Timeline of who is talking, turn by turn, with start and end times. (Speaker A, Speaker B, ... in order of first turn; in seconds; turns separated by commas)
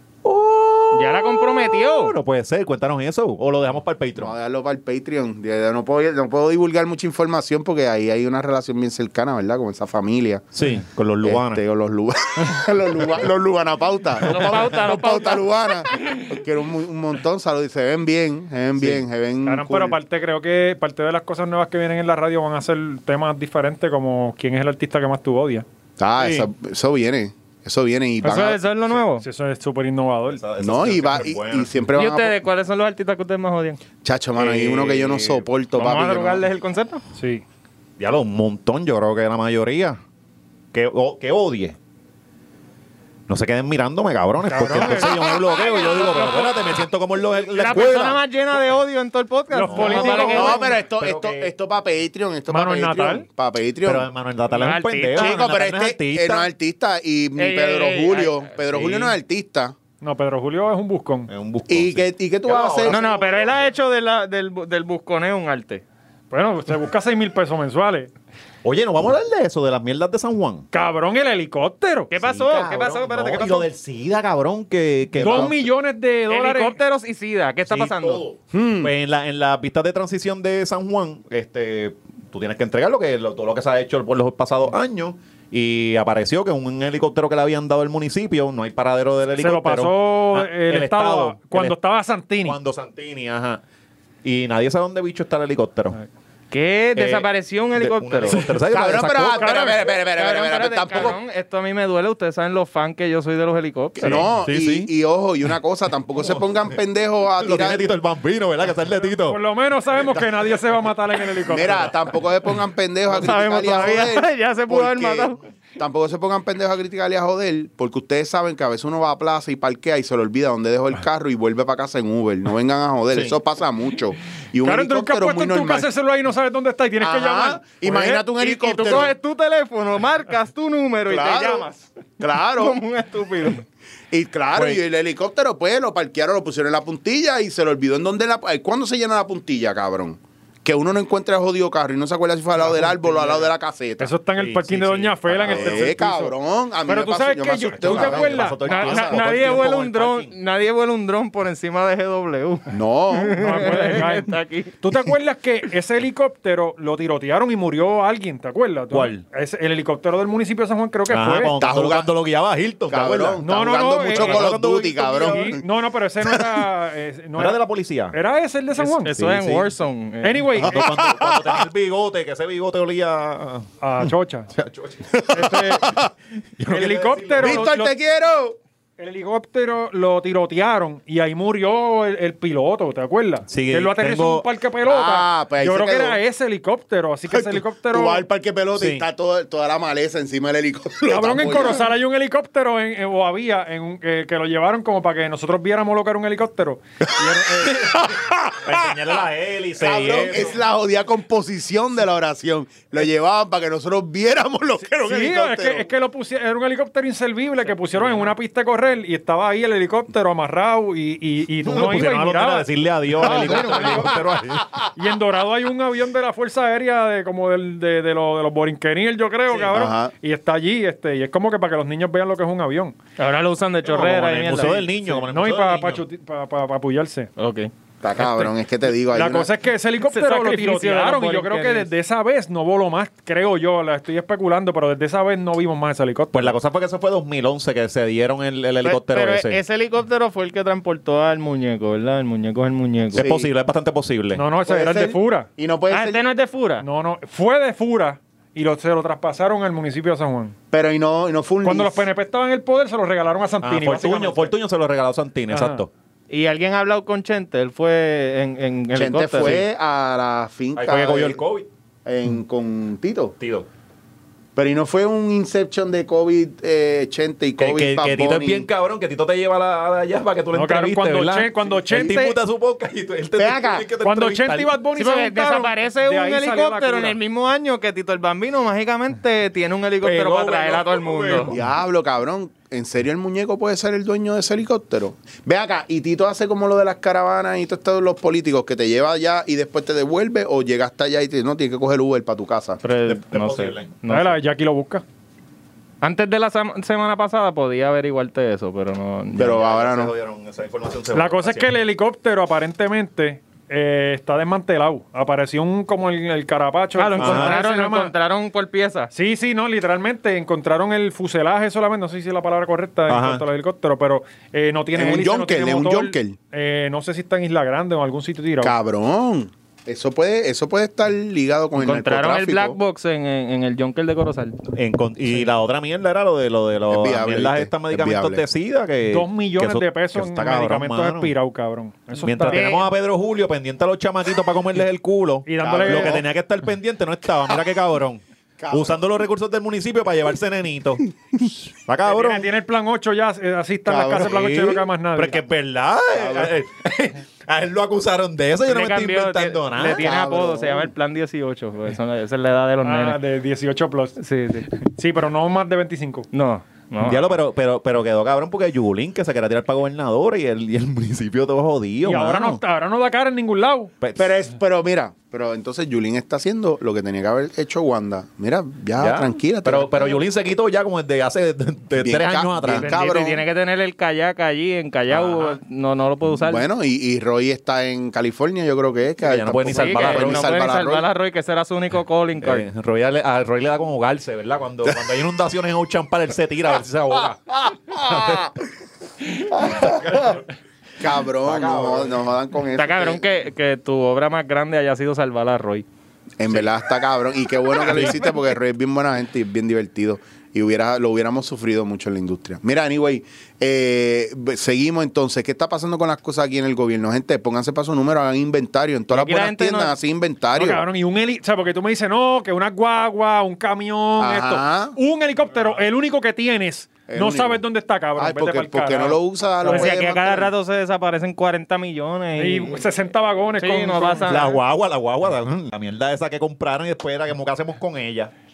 Speaker A: 0.2-4.3, Speaker B: 0.9-2.1, Speaker C: 4.2-10.4, Speaker A: 10.5-11.6, Speaker C: 11.2-20.0, Speaker B: 14.2-16.3, Speaker A: 18.8-19.0, Speaker D: 19.4-25.6, Speaker C: 26.0-28.6, Speaker A: 26.2-26.5, Speaker B: 28.2-29.2, Speaker D: 29.2-30.4, Speaker A: 30.3-31.7, Speaker C: 30.6-32.4, Speaker B: 31.9-33.8, Speaker C: 34.0-36.4, Speaker A: 34.3-35.4, Speaker B: 35.7-37.0, Speaker D: 37.1-37.4, Speaker A: 38.0-40.0, Speaker A: 40.7-41.8, Speaker A: 43.3-48.2, Speaker D: 44.4-45.3, Speaker C: 45.1-45.4, Speaker B: 45.6-46.5, Speaker B: 47.5-50.6, Speaker D: 49.5-50.6, Speaker A: 49.6-51.5, Speaker C: 49.9-54.1, Speaker D: 52.5-53.2, Speaker A: 53.8-56.5, Speaker B: 54.5-55.4, Speaker C: 55.1-59.7, Speaker B: 57.4-59.1, Speaker D: 60.0-61.3, Speaker A: 61.3-63.1, Speaker C: 61.7-63.4, Speaker B: 62.9-65.8, Speaker D: 66.3-68.1, Speaker A: 68.6-70.7, Speaker D: 70.7-72.1, Speaker B: 72.1-73.7, Speaker A: 72.1-75.7, Speaker D: 75.2-76.8, Speaker B: 76.3-78.2, Speaker A: 77.7-91.8, Speaker C: 78.5-78.9, Speaker D: 89.4-92.6, Speaker A: 92.4-93.6, Speaker A: 94.2-96.0, Speaker B: 96.5-98.4, Speaker A: 97.0-99.7, Speaker C: 98.7-101.2, Speaker D: 99.3-99.8, Speaker B: 99.8-104.3, Speaker C: 104.0-107.8, Speaker A: 104.0-104.9, Speaker A: 106.1-106.8, Speaker A: 107.4-109.4, Speaker D: 109.1-111.9, Speaker C: 111.5-125.9, Speaker B: 113.1-115.4, Speaker A: 123.1-123.4, Speaker D: 124.6-128.2, Speaker C: 127.0-129.1, Speaker B: 128.2-131.9, Speaker C: 131.1-131.7, Speaker C: 132.2-132.8, Speaker B: 132.5-133.6, Speaker C: 134.1-144.1, Speaker A: 134.5-134.8, Speaker D: 142.6-143.5, Speaker D: 144.0-148.6, Speaker A: 144.4-145.9, Speaker C: 145.4-149.5, Speaker A: 147.8-150.3, Speaker B: 148.7-154.7, Speaker C: 152.7-153.5, Speaker D: 153.3-161.6, Speaker A: 158.9-159.2, Speaker A: 161.1-163.4, Speaker C: 161.6-162.1, Speaker C: 162.9-165.6, Speaker D: 163.4-164.5, Speaker A: 164.1-165.5, Speaker D: 165.1-169.1, Speaker A: 167.4-168.2, Speaker B: 168.8-170.5, Speaker A: 169.1-169.7, Speaker D: 170.2-170.9, Speaker A: 170.6-175.6, Speaker C: 170.6-171.6, Speaker D: 173.8-174.5, Speaker C: 175.1-176.1, Speaker D: 175.3-175.9, Speaker A: 176.6-177.7, Speaker D: 176.6-177.9, Speaker C: 177.4-178.6, Speaker D: 179.0-188.2, Speaker A: 183.5-184.5, Speaker C: 184.8-186.2, Speaker C: 187.3-191.9, Speaker A: 188.7-189.1, Speaker D: 191.1-198.0, Speaker C: 197.6-198.9, Speaker A: 198.6-200.6, Speaker C: 199.8-205.9, Speaker D: 204.8-214.2, Speaker A: 211.6-214.8, Speaker C: 213.3-214.2, Speaker D: 214.9-222.9, Speaker C: 219.7-220.1, Speaker B: 223.2-225.2, Speaker A: 223.8-226.0, Speaker D: 224.6-227.3, Speaker B: 227.4-228.4, Speaker C: 228.0-229.5, Speaker D: 229.1-236.5, Speaker B: 230.0-231.9, Speaker A: 236.3-239.6, Speaker B: 238.8-243.3, Speaker A: 243.1-244.4, Speaker C: 243.2-243.5, Speaker D: 244.3-245.5, Speaker C: 244.7-246.2, Speaker B: 245.9-246.8, Speaker D: 246.8-250.5, Speaker C: 250.7-252.1, Speaker D: 251.6-254.5, Speaker A: 253.6-255.9, Speaker D: 255.5-255.8, Speaker B: 256.3-259.6, Speaker C: 258.9-261.4, Speaker A: 259.3-259.7, Speaker A: 260.7-261.7, Speaker C: 262.0-263.3, Speaker A: 263.4-263.7, Speaker C: 264.5-268.6, Speaker A: 267.6-274.7, Speaker D: 270.5-272.4, Speaker B: 273.4-273.8, Speaker D: 274.0-277.2, Speaker B: 274.9-281.5, Speaker A: 280.0-281.7, Speaker C: 281.5-292.8, Speaker B: 292.8-294.4, Speaker A: 293.1-293.9, Speaker D: 294.1-295.0, Speaker B: 296.0-299.6, Speaker C: 299.3-300.1, Speaker A: 299.4-301.8, Speaker D: 301.1-308.1, Speaker B: 306.9-309.1, Speaker A: 307.2-307.6, Speaker D: 309.1-318.7, Speaker A: 313.1-313.4, Speaker C: 314.9-316.4, Speaker C: 318.6-322.8, Speaker B: 321.8-324.6, Speaker A: 324.6-331.3, Speaker C: 326.9-328.4, Speaker D: 329.1-332.7, Speaker A: 332.1-341.0, Speaker B: 332.5-332.9, Speaker D: 335.4-336.2, Speaker C: 335.6-336.2, Speaker C: 338.6-339.0, Speaker A: 341.9-342.5, Speaker D: 342.0-345.4, Speaker C: 343.9-344.4, Speaker A: 344.2-350.1, Speaker C: 346.1-346.5, Speaker B: 348.6-353.2, Speaker C: 349.9-350.9, Speaker D: 352.8-354.2, Speaker B: 354.2-354.7, Speaker D: 354.7-356.3, Speaker B: 356.3-357.3, Speaker A: 357.0-362.6, Speaker D: 362.0-363.9, Speaker A: 364.0-364.3, Speaker C: 364.1-370.2, Speaker A: 369.0-373.0, Speaker C: 372.0-373.4, Speaker B: 372.7-376.6, Speaker A: 375.1-375.5, Speaker C: 376.4-381.1, Speaker A: 379.2-380.6, Speaker B: 379.7-382.7, Speaker A: 382.4-387.4, Speaker C: 387.5-388.5, Speaker A: 387.9-388.5, Speaker C: 389.4-390.4, Speaker A: 389.6-390.4, Speaker C: 391.0-393.2, Speaker A: 391.4-392.3, Speaker B: 392.8-395.9, Speaker C: 396.4-410.8, Speaker A: 397.8-398.2, Speaker B: 409.1-409.9, Speaker D: 410.5-419.9, Speaker C: 414.2-414.9, Speaker C: 417.1-417.6, Speaker C: 418.2-420.5, Speaker B: 419.6-422.9, Speaker D: 422.4-424.4, Speaker B: 423.6-424.6, Speaker A: 424.3-428.3